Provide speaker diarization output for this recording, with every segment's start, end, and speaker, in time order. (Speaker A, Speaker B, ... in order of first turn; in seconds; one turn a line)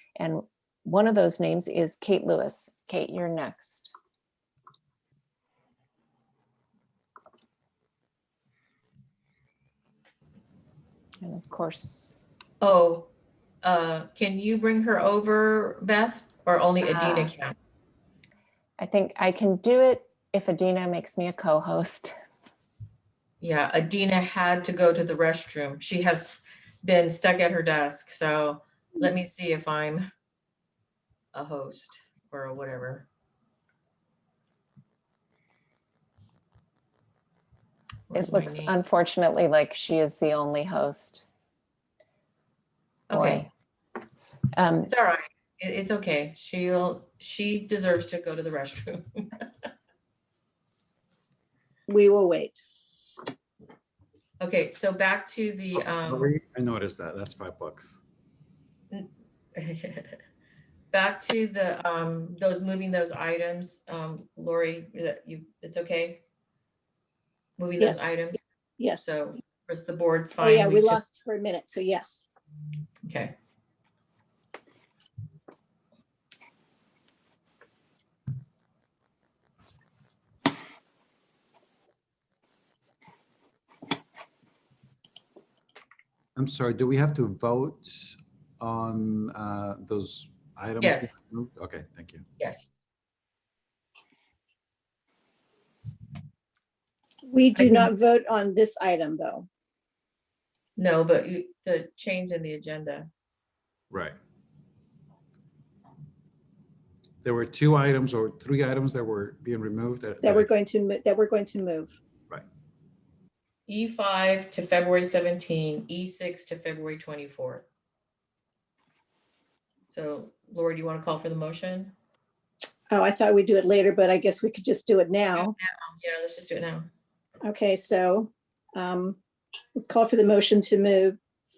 Speaker A: 0.2-3.9
Speaker A: 11.2-12.2
Speaker B: 12.6-13.1
Speaker B: 13.6-17.6
Speaker A: 16.8-17.3
Speaker A: 18.8-22.1
Speaker B: 23.4-30.1
Speaker B: 31.3-33.1
Speaker B: 38.1-38.7
Speaker A: 38.1-41.2
Speaker B: 43.1-43.5
Speaker A: 43.1-43.5
Speaker A: 44.5-44.9
Speaker B: 44.9-49.7
Speaker C: 51.9-52.6
Speaker B: 54.4-56.3
Speaker D: 55.8-58.0
Speaker B: 58.9-60.2
Speaker B: 60.9-66.2
Speaker B: 67.6-68.4
Speaker C: 67.8-68.1
Speaker C: 68.8-69.2
Speaker B: 69.0-71.0
Speaker C: 70.4-72.2
Speaker B: 73.0-73.3
Speaker D: 86.4-92.2
Speaker B: 90.8-91.2
Speaker B: 92.4-92.7
Speaker C: 97.3-99.5
Speaker B: 97.6-97.9
Speaker B: 100.8-103.1
Speaker D: 103.9-104.2
Speaker D: 107.2-110.5
Speaker C: 110.2-111.9
Speaker B: 113.7-117.7
Speaker B: 119.9-121.9
Speaker C: 122.9-125.5
Speaker B: 125.3-126.9
Speaker C: 127.4-129.2
Speaker C: 129.8-131.2